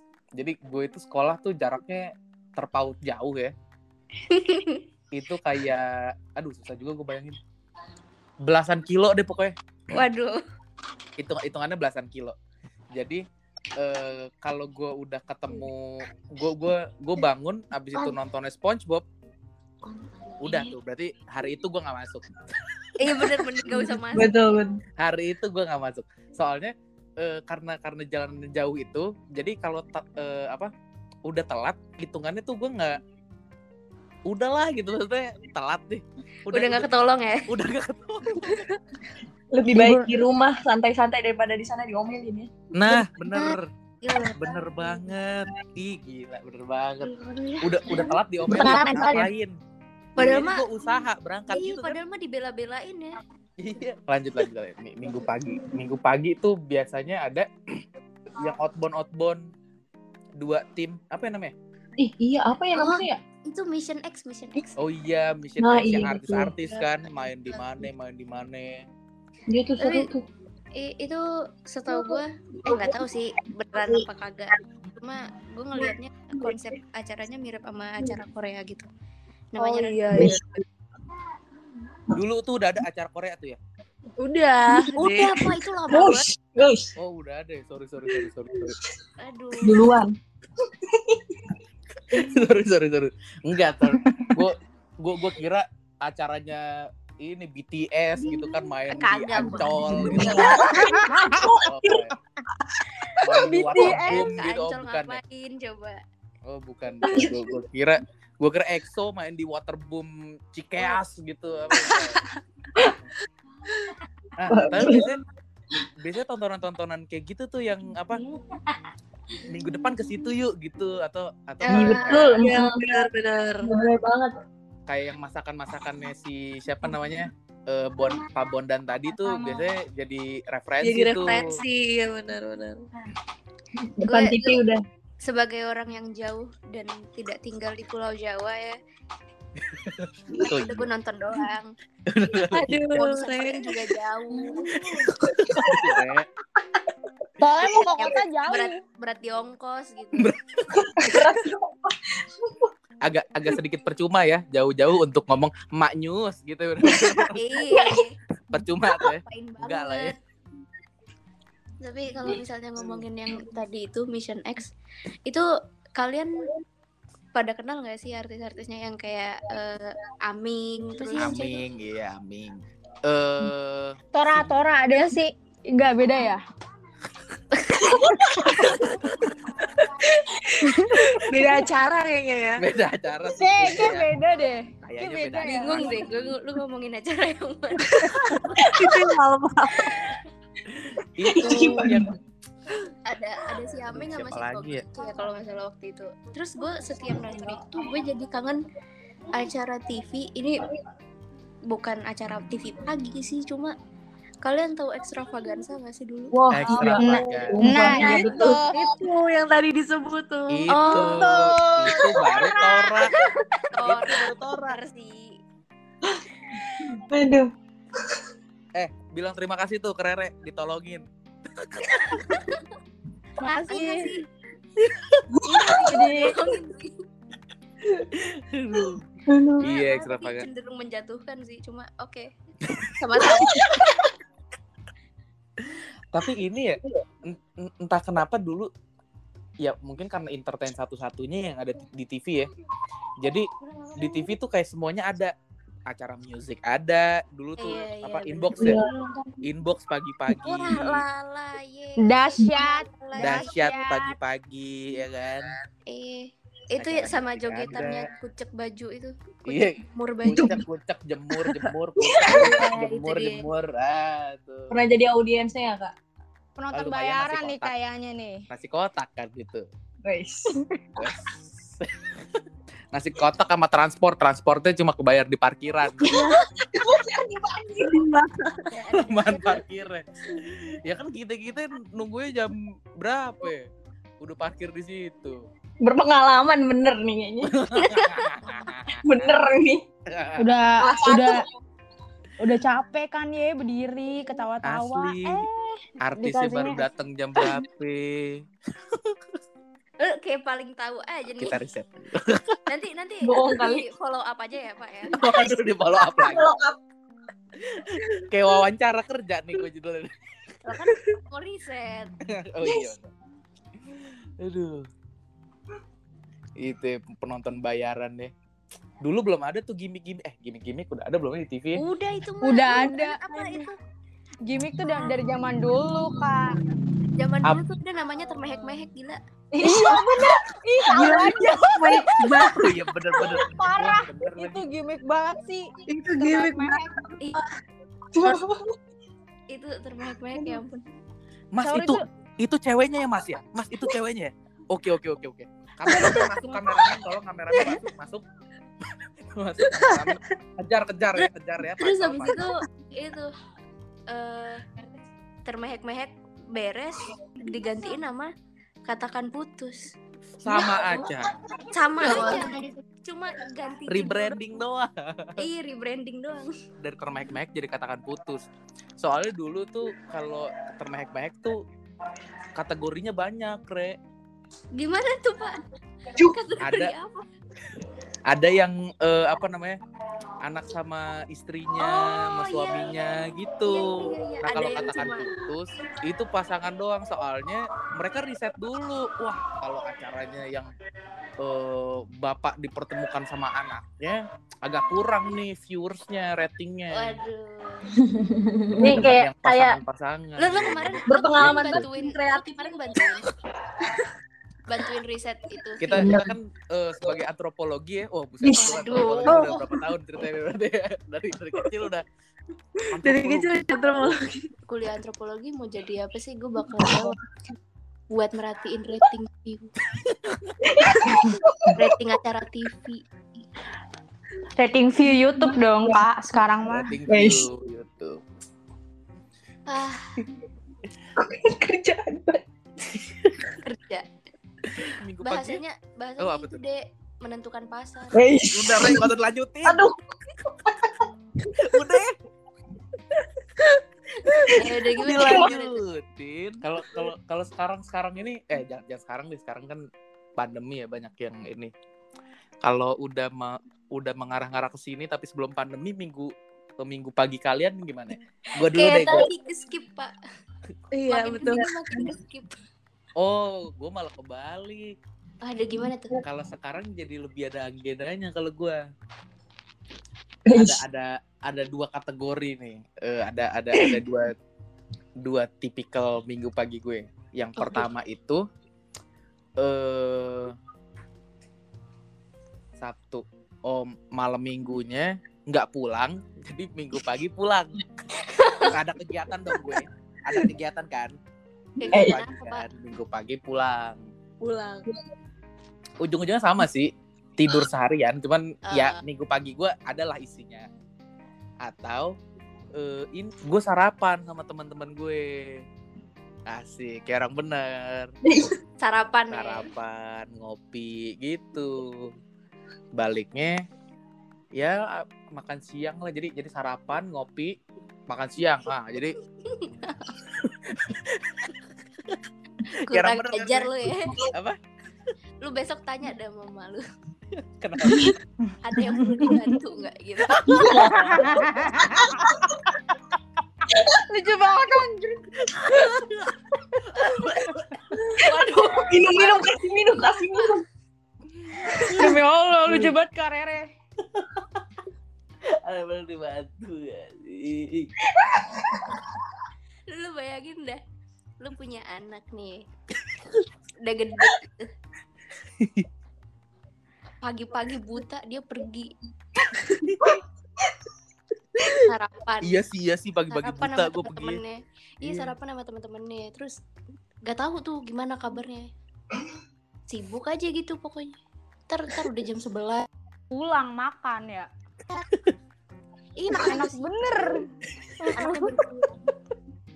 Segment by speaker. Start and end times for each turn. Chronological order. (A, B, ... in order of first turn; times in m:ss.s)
0:00.4-0:03.5 A
0:04.3-0:04.8 B
0:05.1-0:07.4 A
0:08.4-0:09.6 A
0:09.9-0:10.4 B
0:11.2-0:12.4 A
0:12.9-0:13.2 A
0:13.8-0:19.0 A
0:20.4-0:22.4 A
0:23.0-0:24.4 B
0:23.7-0:24.8 C
0:25.0-0:30.7 A
0:31.3-0:33.0 A
0:34.3-0:36.9 A
0:36.5-0:37.5 B
0:37.5-0:38.7 A
0:39.5-0:42.5 C
0:39.7-0:40.2 D
0:42.7-0:43.7 A
0:43.3-0:44.6 B
0:44.4-0:49.6 A
0:47.0-0:49.2 B
0:48.5-0:49.3 C
0:50.2-0:50.7 B
0:50.2-0:52.0 A
0:51.5-0:53.2 B
0:53.6-0:57.8 A
0:58.4-0:59.4 A
1:00.4-1:01.5 A
1:02.0-1:03.2 C
1:02.7-1:04.8 B
1:04.8-1:08.8 A
1:05.6-1:06.5 C
1:09.5-1:10.3 C
1:09.8-1:10.1 B
1:10.8-1:18.9 B
1:11.9-1:13.0 C
1:15.8-1:16.6 C
1:19.5-1:20.4 B
1:19.6-1:20.6 E
1:20.2-1:20.5 C
1:22.1-1:23.6 A
1:24.2-1:25.5 E
1:24.9-1:26.3 B
1:25.9-1:26.9 C
1:27.0-1:28.8 A
1:29.2-1:30.0 B
1:29.6-1:31.6 C
1:32.1-1:36.6 A
1:34.0-1:34.3 C
1:37.2-1:40.7 A
1:38.9-1:40.7 B
1:39.3-1:42.1 C
1:40.5-1:41.4 D
1:41.5-1:42.1 A
1:43.2-1:45.2 A
1:43.3-1:44.3 D
1:43.8-1:46.0 B
1:46.5-1:52.2 A
1:47.0-1:47.4 C
1:54.4-1:55.2 A
1:54.5-1:55.1 C
1:56.0-1:58.2 A
1:59.4-2:02.5 A
2:01.6-2:02.5 B
2:01.7-2:03.1 C
2:02.2-2:03.8 E
2:03.6-2:04.4 C
2:04.9-2:11.6 A
2:10.8-2:12.9 E
2:13.8-2:14.8 C
2:14.0-2:14.6 B
2:15.2-2:18.8 B
2:19.6-2:20.8 A
2:20.4-2:21.7 B
2:22.1-2:23.0 A
2:22.4-2:24.0 E
2:23.0-2:24.7 B
2:24.5-2:25.8 C
2:25.6-2:26.3 A
2:27.4-2:28.8 D
2:28.0-2:30.3 B
2:30.2-2:31.1 A
2:30.8-2:32.7 C
2:33.0-2:37.6 A
2:37.4-2:38.2 B
2:38.5-2:40.2 A
2:39.0-2:40.2 B
2:41.8-2:44.7 B
2:45.3-2:46.5 B
2:47.4-2:51.6 B
2:51.1-2:54.4 A
2:54.1-2:56.4 D
2:57.8-2:58.4 C
2:58.9-2:59.2 A
3:00.2-3:02.7 E
3:00.6-3:01.1 D
3:02.6-3:04.1 A
3:03.3-3:06.0 D
3:04.8-3:06.0 A
3:05.4-3:08.1 B
3:07.9-3:10.1 E
3:08.5-3:09.1 C
3:10.7-3:12.2 A
3:11.2-3:12.2 C
3:13.1-3:18.6 B
3:13.9-3:14.8 A
3:19.3-3:20.8 B
3:21.7-3:23.7 B
3:24.4-3:26.4 B
3:26.3-3:28.7 C
3:26.5-3:28.0 A
3:27.0-3:28.9 D
3:28.0-3:32.0 E
3:28.0-3:28.3 B
3:30.5-3:33.2 A
3:30.7-3:33.0 B
3:33.7-3:35.4 B
3:33.8-3:34.8 A
3:36.8-3:37.5 C
3:38.8-3:42.4 A
3:42.1-3:42.6 B
3:43.4-3:44.1 D
3:43.4-3:44.2 B
3:45.3-3:46.0 C
3:45.4-3:46.9 B
3:45.9-3:46.4 D
3:48.0-3:49.0 A
3:49.3-3:49.6 C
3:49.6-3:50.5 A
3:49.6-3:52.3 B
3:52.9-3:54.0 B
3:53.2-3:54.0 C
3:55.7-3:58.7 A
3:59.6-4:02.5 A
4:03.2-4:05.3 A
4:05.9-4:08.8 A
4:07.6-4:08.9 B
4:08.6-4:09.3 C
4:09.4-4:11.0 A
4:10.4-4:13.5 B
4:12.0-4:14.1 D
4:13.2-4:15.5 A
4:15.9-4:20.6 B
4:16.8-4:18.1 A
4:19.4-4:24.8 A
4:20.3-4:20.6 C
4:22.0-4:22.7 C
4:22.2-4:23.5 B
4:24.7-4:25.9 C
4:26.6-4:28.4 D
4:26.7-4:27.7 A
4:28.5-4:29.7 A
4:30.0-4:30.6 C
4:31.0-4:32.4 A
4:32.9-4:36.1 A
4:36.0-4:38.3 C
4:38.7-4:39.6 B
4:39.0-4:43.7 A
4:44.2-4:45.4 A
4:45.8-4:47.6 C
4:47.5-4:49.5 A
4:47.8-4:48.4 B
4:49.0-4:49.8 C
4:50.1-4:50.5 A
4:50.4-4:51.4 D
4:50.8-4:51.4 C
4:52.4-4:56.9 D
4:54.6-4:55.5 A
4:56.0-4:59.4 A
5:00.0-5:01.6 B
5:01.4-5:02.6 A
5:02.7-5:05.3 B
5:03.2-5:03.8 C
5:05.1-5:06.5 A
5:05.2-5:05.5 C
5:06.2-5:06.8 C
5:07.7-5:11.0 A
5:10.7-5:12.2 B
5:12.2-5:13.1 A
5:12.7-5:12.9 C
5:13.8-5:14.9 A
5:16.6-5:18.3 A
5:19.0-5:21.8 A
5:21.8-5:23.8 B
5:22.4-5:23.6 D
5:24.5-5:26.6 D
5:27.2-5:29.2 B
5:29.5-5:33.4 C
5:29.6-5:32.1 D
5:32.3-5:34.6 A
5:33.2-5:36.9 D
5:35.9-5:36.4 C
5:36.2-5:36.6 E
5:37.2-5:37.4 B
5:38.1-5:38.7 C
5:39.5-5:40.8 B
5:40.4-5:40.6 C
5:41.6-5:48.2 A
5:41.6-5:42.0 D
5:45.9-5:46.9 B
5:49.3-5:52.4 A
5:51.2-5:53.3 B
5:54.1-5:54.8 B
5:55.5-5:58.3 B
5:58.9-5:59.9 B
6:00.4-6:01.3 A
6:00.5-6:01.1 C
6:01.7-6:04.4 B
6:02.0-6:02.5 A
6:03.9-6:05.5 A
6:05.4-6:06.5 B
6:06.8-6:08.4 A
6:09.0-6:11.6 A
6:12.6-6:14.0 A
6:14.7-6:15.6 B
6:16.2-6:17.2 B
6:16.6-6:16.9 A
6:18.3-6:19.8 A
6:20.4-6:30.7 A
6:21.8-6:25.3 B
6:31.4-6:37.2 A
6:36.9-6:37.9 B
6:38.0-6:39.8 C
6:38.8-6:41.9 A
6:40.4-6:43.3 B
6:41.1-6:43.2 C
6:44.7-6:46.1 B
6:45.8-6:52.0 A
6:45.9-6:46.3 C
6:48.4-6:49.6 C
6:48.5-6:49.6 B
6:49.3-6:49.6 E
6:52.9-6:53.6 A
6:53.0-6:54.5 E
6:54.7-6:57.2 B
6:56.8-6:57.1 C
6:58.1-6:59.7 B
7:00.0-7:00.5 A
7:00.6-7:01.9 C
7:01.7-7:03.0 B
7:04.6-7:06.9 D
7:06.6-7:08.2 A
7:07.1-7:07.5 C
7:09.7-7:10.2 B
7:11.2-7:12.4 C
7:13.6-7:14.1 B
7:14.8-7:15.6 A
7:15.2-7:18.2 B
7:16.2-7:16.6 A
7:18.1-7:19.1 C
7:18.5-7:19.8 A
7:19.6-7:21.0 C
7:21.6-7:22.2 A
7:24.3-7:25.5 C
7:24.5-7:25.8 B
7:25.0-7:29.8 A
7:30.4-7:31.7 A
7:32.6-7:39.3 A
7:38.6-7:40.1 B
7:40.9-7:42.0 E
7:41.1-7:42.6 B
7:43.2-7:45.0 A
7:45.4-7:46.2 B
7:46.2-7:48.8 A
7:50.5-7:50.8 C
7:50.5-7:54.4 A
7:55.2-7:58.4 A
7:59.6-8:00.6 A
8:02.8-8:07.8 A
8:08.4-8:08.7 B
8:08.6-8:11.2 A
8:11.8-8:12.6 B
8:11.8-8:12.2 C
8:11.9-8:14.0 A
8:14.4-8:14.9 E
8:16.0-8:20.7 A
8:18.7-8:19.0 B
8:21.6-8:22.1 A
8:22.8-8:25.6 A
8:26.5-8:28.1 A
8:28.2-8:28.6 C
8:28.8-8:29.7 B
8:29.3-8:32.1 A
8:33.0-8:33.6 A
8:34.6-8:37.5 A
8:38.1-8:39.2 A
8:39.5-8:40.2 B
8:40.4-8:42.2 A
8:42.8-8:44.2 B
8:42.9-8:44.6 A
8:45.4-8:46.8 B
8:47.3-8:48.2 A
8:47.8-8:48.2 C
8:48.6-8:50.9 B
8:50.3-8:51.4 C
8:50.6-8:51.3 A
8:51.1-8:52.3 D
8:54.1-8:55.3 D
8:55.6-8:58.0 A
8:58.2-9:00.6 C
8:58.2-8:59.5 B
9:01.4-9:03.0 A
9:01.9-9:03.7 D
9:04.1-9:04.6 A
9:05.5-9:07.9 A
9:08.2-9:09.0 C
9:09.9-9:10.8 B
9:11.4-9:12.6 B
9:13.8-9:14.7 B
9:15.4-9:15.9 A
9:17.2-9:18.9 B
9:19.8-9:20.1 A
9:20.0-9:20.7 C
9:21.7-9:22.6 B
9:22.4-9:24.4 A
9:23.3-9:26.6 B
9:25.0-9:25.3 A
9:27.3-9:28.7 B
9:29.9-9:31.2 B
9:31.7-9:32.9 B
9:33.3-9:34.5 D
9:36.2-9:36.7 B
9:36.4-9:37.5 D
9:38.1-9:38.4 D
9:38.1-9:38.9 B